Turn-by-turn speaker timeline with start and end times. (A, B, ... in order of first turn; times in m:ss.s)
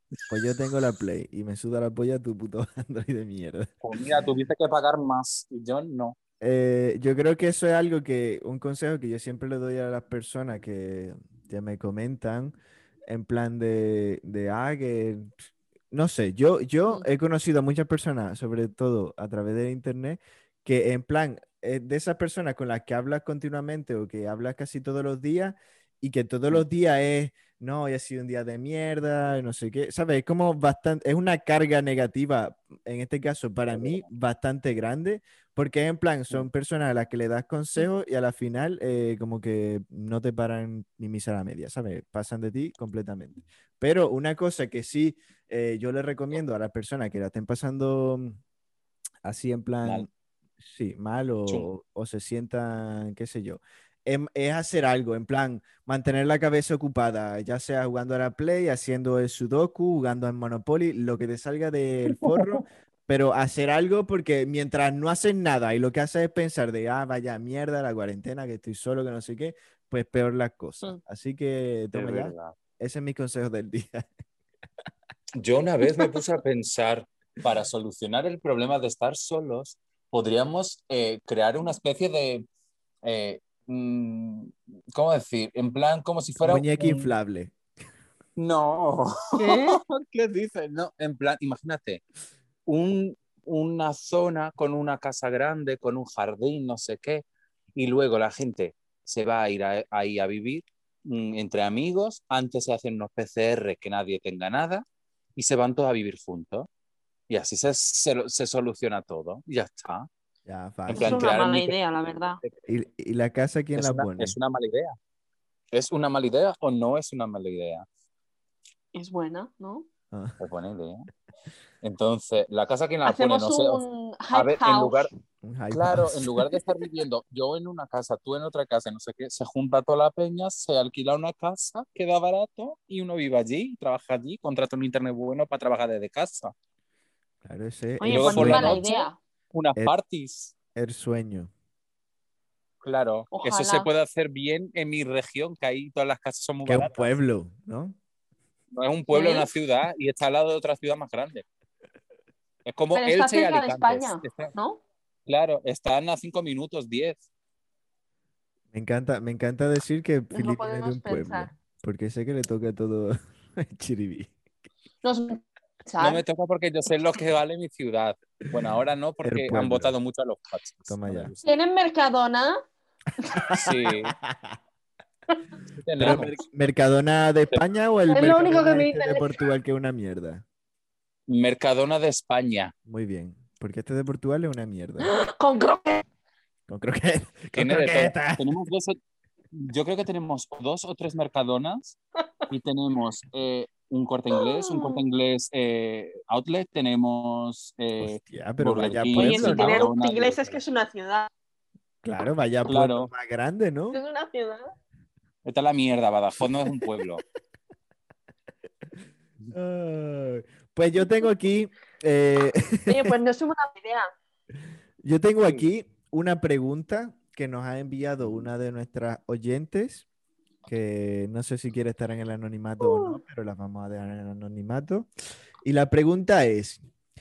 0:00.3-0:04.0 A
0:03.8-0:06.2 B
0:06.4-0:12.6 A
0:13.1-0:15.4 A
0:15.9-0:48.4 A
0:49.2-0:50.1 A
0:50.6-1:14.1 A
1:02.1-1:02.6 B
1:11.9-1:12.6 B
1:15.4-1:22.4 B
1:23.0-1:27.1 B
1:26.4-1:27.5 A
1:28.4-1:32.0 B
1:29.4-1:29.8 C
1:32.6-1:37.2 B
1:37.7-1:44.8 B
1:45.4-1:46.7 B
1:47.3-1:50.1 B
1:50.4-1:51.3 A
1:50.9-1:51.8 B
1:51.0-1:52.4 C
1:52.7-1:54.3 A
1:53.8-1:55.0 B
1:55.7-1:57.8 B
1:58.9-1:59.9 C
2:00.1-2:00.4 A
2:00.4-2:01.1 B
2:01.8-2:05.1 B
2:03.0-2:05.1 C
2:05.4-2:06.6 A
2:05.7-2:16.5 B
2:17.4-2:18.8 A
2:18.0-2:19.2 C
2:18.1-2:20.5 B
2:20.7-2:21.5 A
2:22.8-2:27.1 B
2:23.3-2:23.9 C
2:26.6-2:28.0 A
2:28.7-2:31.4 B
2:29.1-2:29.5 C
2:32.6-2:34.5 B
2:32.9-2:34.8 C
2:35.3-2:37.2 B
2:38.7-2:44.3 A
2:40.3-2:41.5 C
2:45.0-2:46.2 C
2:46.0-2:51.5 B
2:49.2-2:49.9 A
2:50.9-2:51.3 A
2:51.4-2:52.6 C
2:53.3-2:53.6 C
2:53.4-2:54.6 A
2:53.6-2:54.1 B
2:55.8-2:56.4 B
2:56.0-3:00.4 A
2:58.1-2:59.3 C
3:01.3-3:02.7 B
3:02.8-3:05.1 A
3:05.0-3:06.0 C
3:06.7-3:08.4 A
3:07.5-3:09.0 B
3:09.5-3:12.0 B
3:12.5-3:20.6 B
3:14.4-3:15.0 C
3:18.0-3:19.9 A
3:19.1-3:21.3 C
3:22.0-3:24.0 A
3:22.7-3:23.1 B
3:23.9-3:24.7 C
3:25.4-3:27.2 B
3:29.5-3:33.1 A
3:32.9-3:34.1 C
3:35.0-3:40.0 A
3:40.6-3:45.1 A
3:42.8-3:43.2 C
3:45.6-3:46.8 A